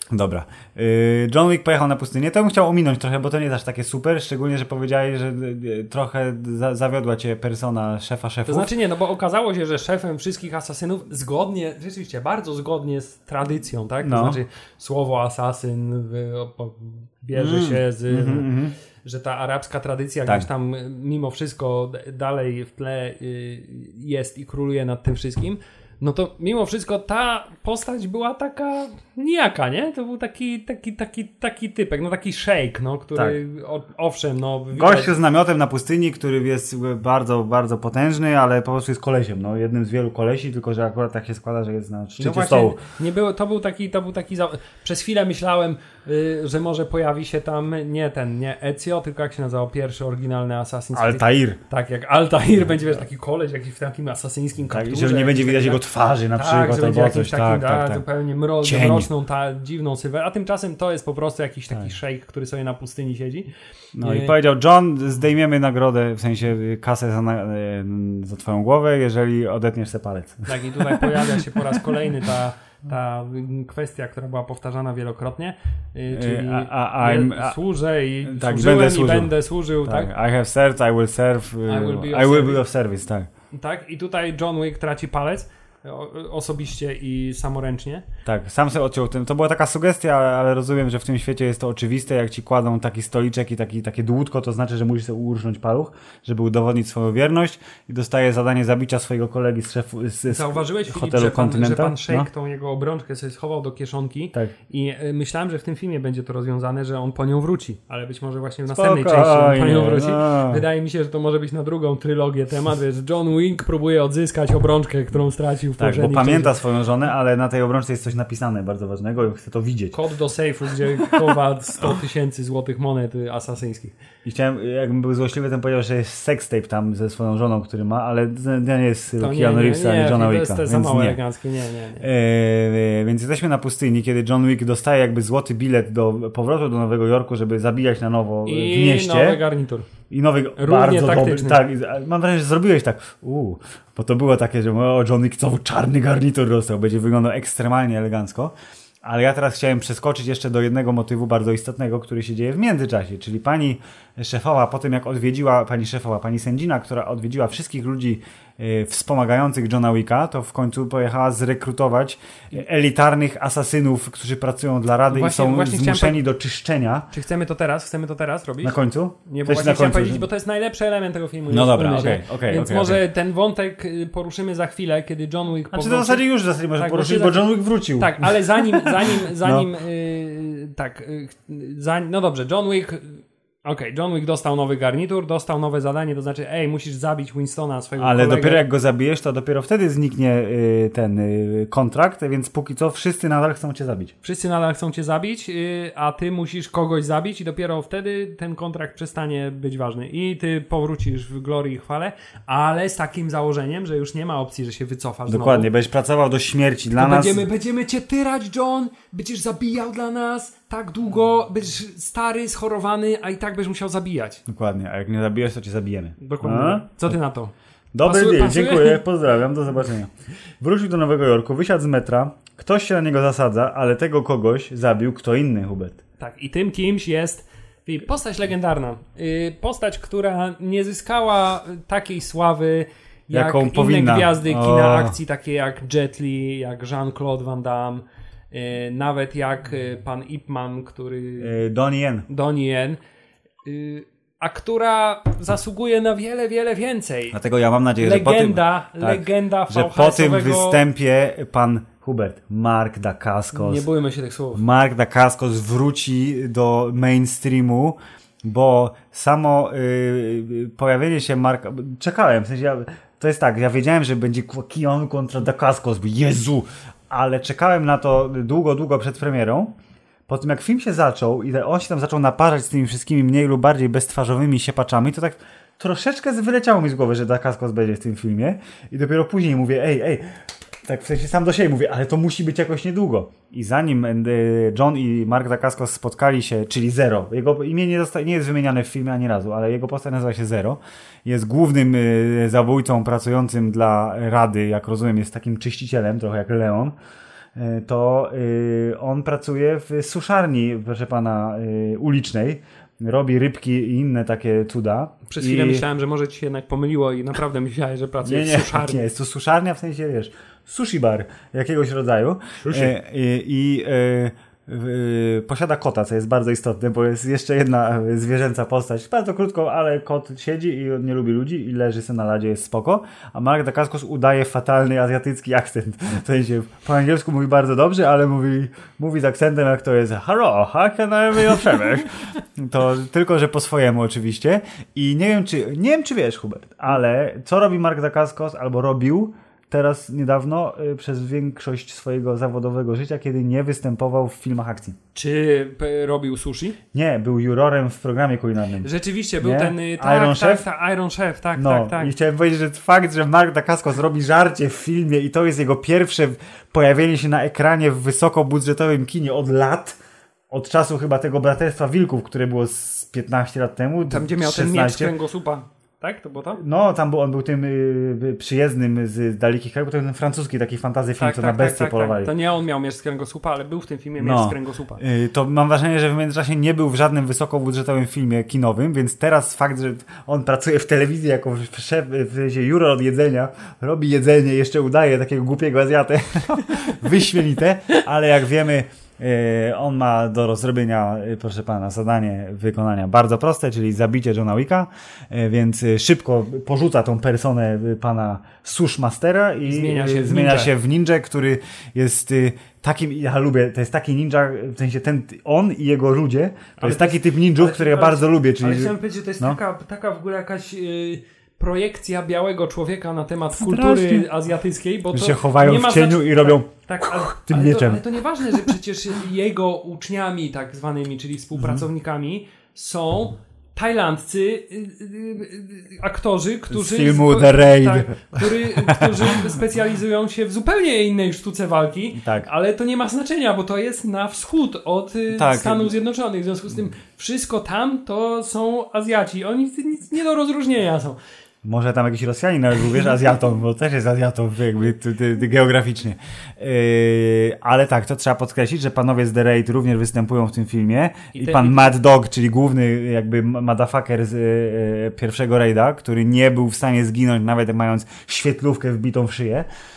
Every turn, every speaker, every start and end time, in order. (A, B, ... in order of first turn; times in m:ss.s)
0:00.1-0:08.7 A
0:08.5-0:18.5 B
0:14.0-0:14.4 A
0:17.3-0:18.7 A
0:19.0-0:35.1 B
0:34.7-0:42.8 A
0:42.2-1:03.5 B
0:50.9-0:51.6 A
0:54.7-0:58.0 A
0:58.6-0:59.1 A
1:04.0-1:11.4 A
1:04.0-1:04.3 B
1:10.5-1:20.1 B
1:16.1-1:17.6 A
1:18.2-1:19.3 A
1:19.8-1:23.3 A
1:21.7-1:22.6 B
1:23.5-1:28.0 B
1:28.2-1:42.3 A
1:40.3-1:56.5 B
1:48.7-1:50.6 A
1:55.8-2:00.0 A
1:59.9-2:03.9 B
2:04.2-2:11.2 A
2:09.2-2:12.0 B
2:12.0-2:19.4 A
2:18.4-2:19.9 B
2:20.1-2:47.1 A
2:20.6-2:21.6 B
2:45.1-2:46.2 B
2:47.1-2:48.8 B
2:48.6-2:50.2 A
2:49.3-2:56.2 B
2:51.5-2:53.0 A
2:55.7-2:59.7 A
2:56.8-3:08.6 B
3:08.0-3:14.1 A
3:14.2-3:25.7 B
3:25.3-3:27.4 A
3:26.9-3:34.4 B
3:34.5-3:37.2 A
3:36.2-3:37.5 B
3:37.9-3:46.0 A
3:38.0-3:39.0 B
3:46.2-4:01.5 B
3:53.3-3:55.2 A
4:01.4-4:02.2 A
4:02.3-4:03.0 B
4:03.6-4:07.4 B
4:07.3-4:13.8 A
4:08.0-4:10.8 B
4:13.5-4:14.6 B
4:14.5-4:29.7 A
4:30.3-4:56.9 A
4:57.6-5:05.8 A
5:05.3-5:09.0 B
5:08.2-5:45.0 A
5:12.6-5:12.9 B
5:45.1-5:46.8 B
5:46.9-5:48.9 A
5:48.8-5:52.1 B
5:49.4-5:50.6 A
5:51.6-6:00.0 A
6:00.5-6:05.1 A
6:04.1-6:06.6 B
6:06.5-6:12.3 A
6:11.2-6:15.0 B
6:14.2-6:49.6 A
6:39.6-6:40.7 B
6:46.8-7:21.2 B
6:53.6-6:54.3 A
6:55.1-6:58.0 A
7:01.6-7:01.8 A
7:06.7-7:09.4 A
7:12.2-7:12.5 A
7:15.3-7:15.9 A
7:21.6-7:39.7 A
7:31.3-7:31.9 B